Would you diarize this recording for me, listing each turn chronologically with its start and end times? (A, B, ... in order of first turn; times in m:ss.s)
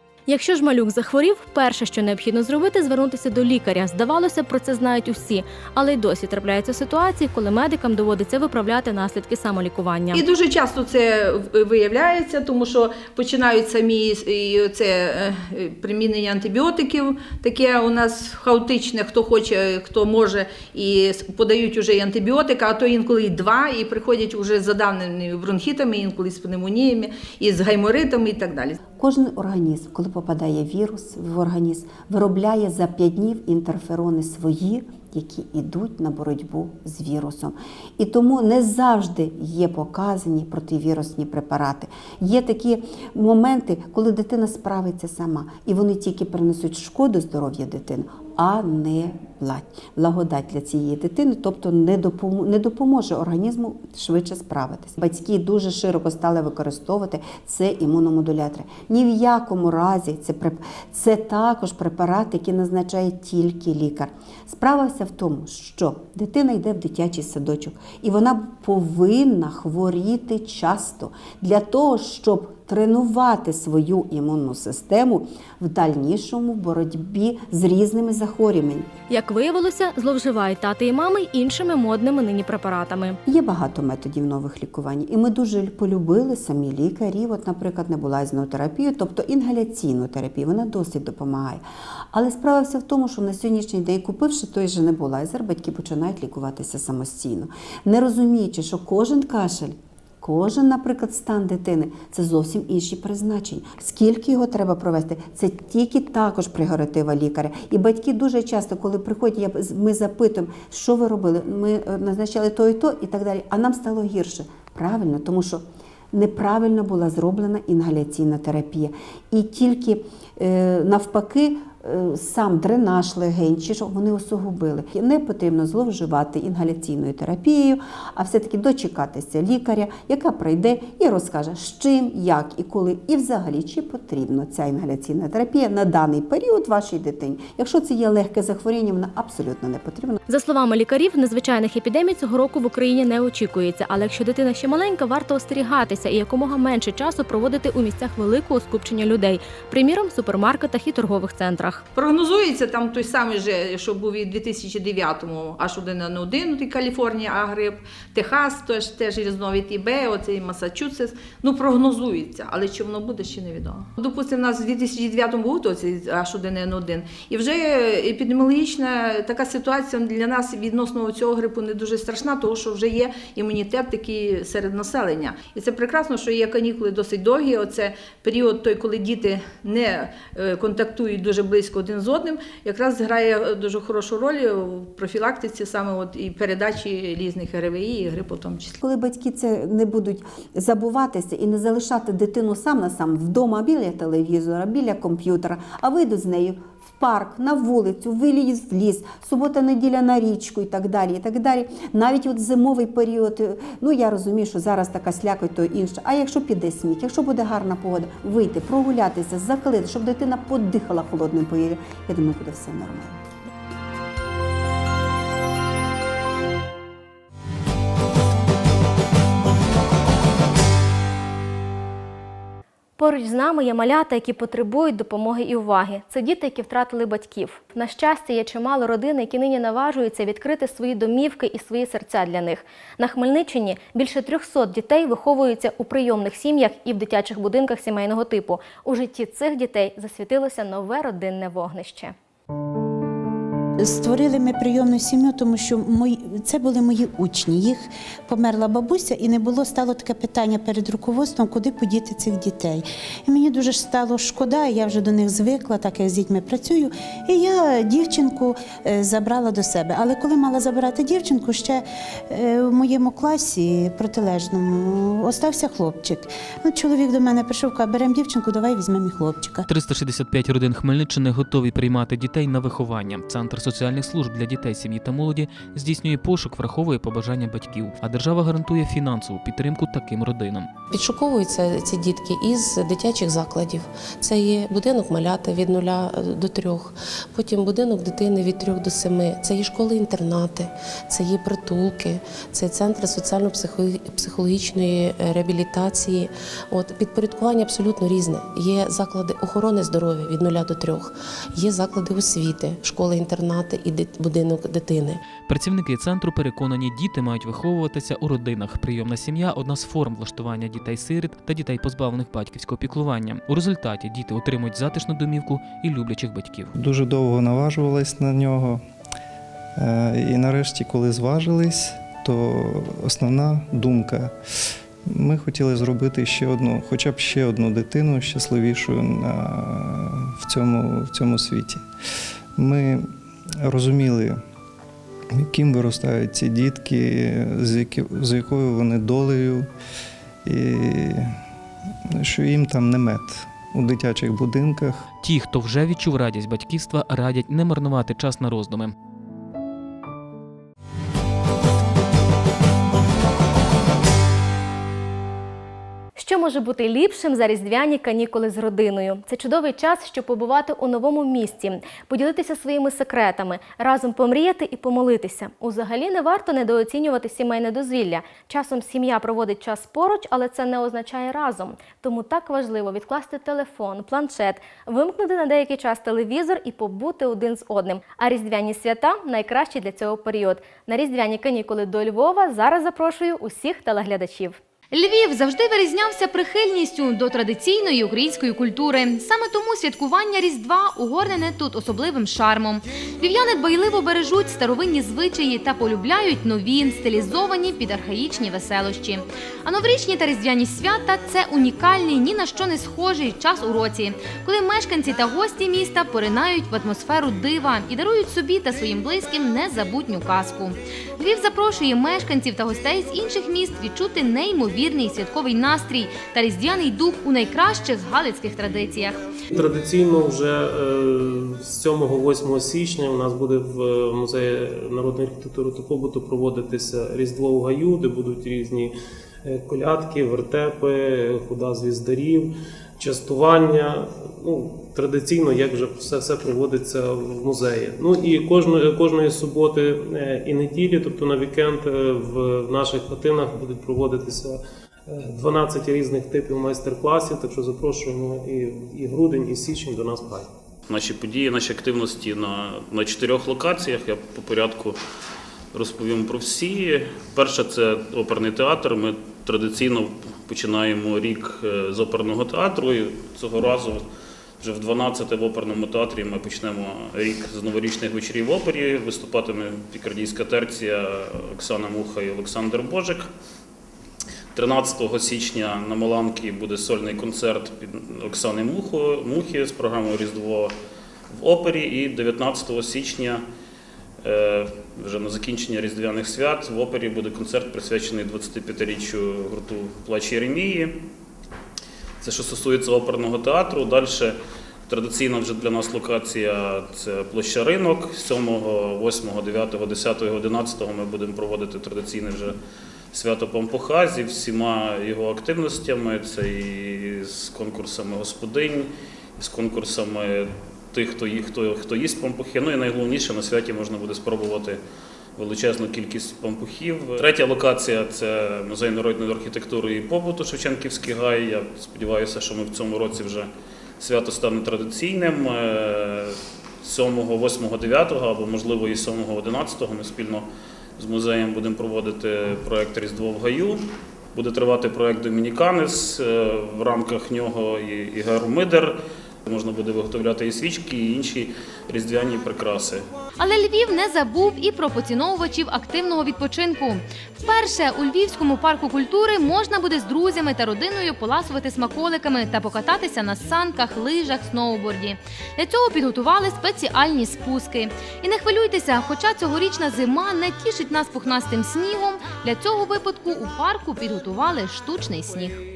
0:00.3-0:10.2 A
0:10.1-0:28.8 B
0:29.0-1:18.9 C
1:19.1-1:23.2 A
1:23.3-2:20.2 C
2:20.3-2:31.8 A
2:32.0-3:08.8 B
3:08.8-3:33.2 C
3:43.0-4:02.1 A
4:03.8-4:29.7 D
4:29.7-4:40.8 E
4:40.9-5:05.2 F
5:05.4-5:16.7 E
5:16.8-5:18.8 G
5:19.8-5:24.3 G
5:25.1-5:31.8 G
5:32.6-5:34.4 G
5:35.3-5:39.7 G
5:40.4-5:41.4 G
5:42.2-5:45.1 G
5:45.2-5:48.9 E
5:56.2-6:24.6 A
6:24.9-6:59.2 H
6:59.5-7:08.9 I
7:09.4-7:30.5 I
7:30.9-7:35.0 J
7:35.7-7:44.1 J
7:44.6-7:53.3 J
7:54.6-8:00.7 J
8:01.3-8:03.4 J
8:04.2-8:11.0 J
8:12.2-8:14.4 J
8:14.9-8:22.6 J
8:23.1-8:34.8 J
8:35.4-8:50.5 J
8:51.0-9:03.0 J
9:03.4-9:25.6 H